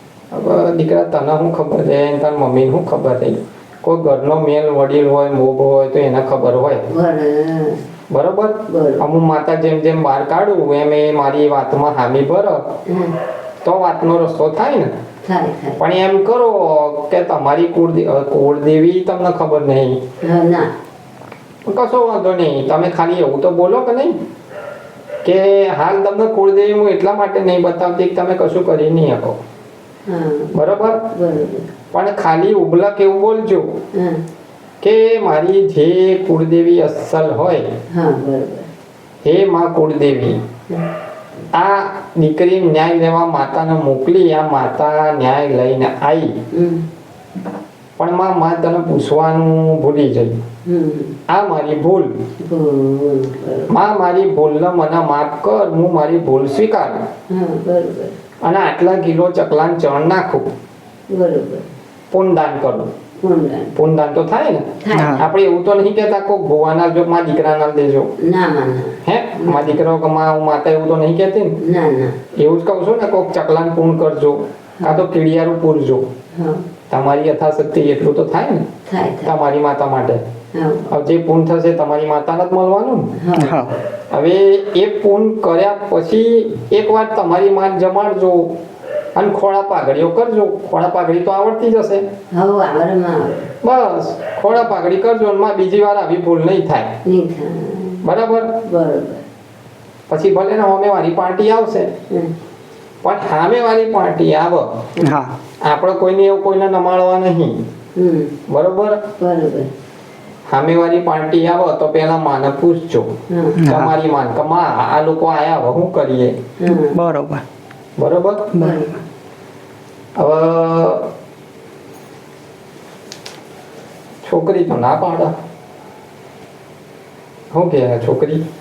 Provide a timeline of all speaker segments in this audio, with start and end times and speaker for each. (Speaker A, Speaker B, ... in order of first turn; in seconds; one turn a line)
Speaker A: 0.3-6.9
Speaker B: 6.9-7.8
Speaker A: 8.1-12.7
Speaker B: 8.7-9.0
Speaker B: 12.9-13.1
Speaker A: 13.6-14.9
Speaker B: 15.2-15.8
Speaker A: 15.8-20.0
Speaker B: 20.2-20.7
Speaker A: 21.6-24.1
Speaker A: 25.2-29.4
Speaker B: 30.1-30.5
Speaker A: 30.5-31.0
Speaker B: 31.1-31.7
Speaker A: 31.9-33.8
Speaker B: 33.9-34.2
Speaker A: 34.8-37.7
Speaker B: 37.9-38.7
Speaker A: 39.2-40.4
Speaker A: 41.5-46.4
Speaker B: 46.5-46.9
Speaker A: 48.0-50.4
Speaker B: 50.6-51.2
Speaker A: 51.3-52.1
Speaker B: 52.4-53.7
Speaker A: 53.7-57.1
Speaker B: 57.3-58.2
Speaker A: 58.4-60.5
Speaker B: 61.1-61.6
Speaker A: 62.1-62.9
Speaker B: 63.2-63.7
Speaker A: 63.8-68.1
Speaker B: 64.8-65.2
Speaker C: 64.9-65.2
Speaker B: 68.2-69.7
Speaker A: 69.0-71.6
Speaker B: 71.6-72.2
Speaker A: 72.3-76.1
Speaker B: 76.3-76.6
Speaker A: 76.9-78.7
Speaker B: 78.9-79.3
Speaker A: 79.2-80.2
Speaker B: 80.5-80.8
Speaker A: 80.9-83.1
Speaker B: 83.1-83.8
Speaker C: 83.3-83.7
Speaker A: 84.1-88.6
Speaker A: 89.1-92.1
Speaker B: 92.3-93.5
Speaker A: 93.6-97.0
Speaker B: 97.0-98.0
Speaker A: 98.0-98.5
Speaker B: 98.6-99.2
Speaker A: 100.1-101.9
Speaker A: 103.0-104.9
Speaker C: 105.0-105.3
Speaker A: 105.6-107.6
Speaker B: 108.0-108.3
Speaker A: 108.5-109.0
Speaker B: 109.2-109.7
Speaker A: 110.5-113.1
Speaker B: 113.3-113.6
Speaker C: 113.6-113.9
Speaker A: 113.7-116.4
Speaker B: 116.6-117.0
Speaker C: 116.7-117.4
Speaker A: 118.0-118.5
Speaker C: 118.5-118.8
Speaker B: 118.6-119.0
Speaker A: 120.2-121.1
Speaker A: 124.2-125.3
Speaker A: 127.5-128.4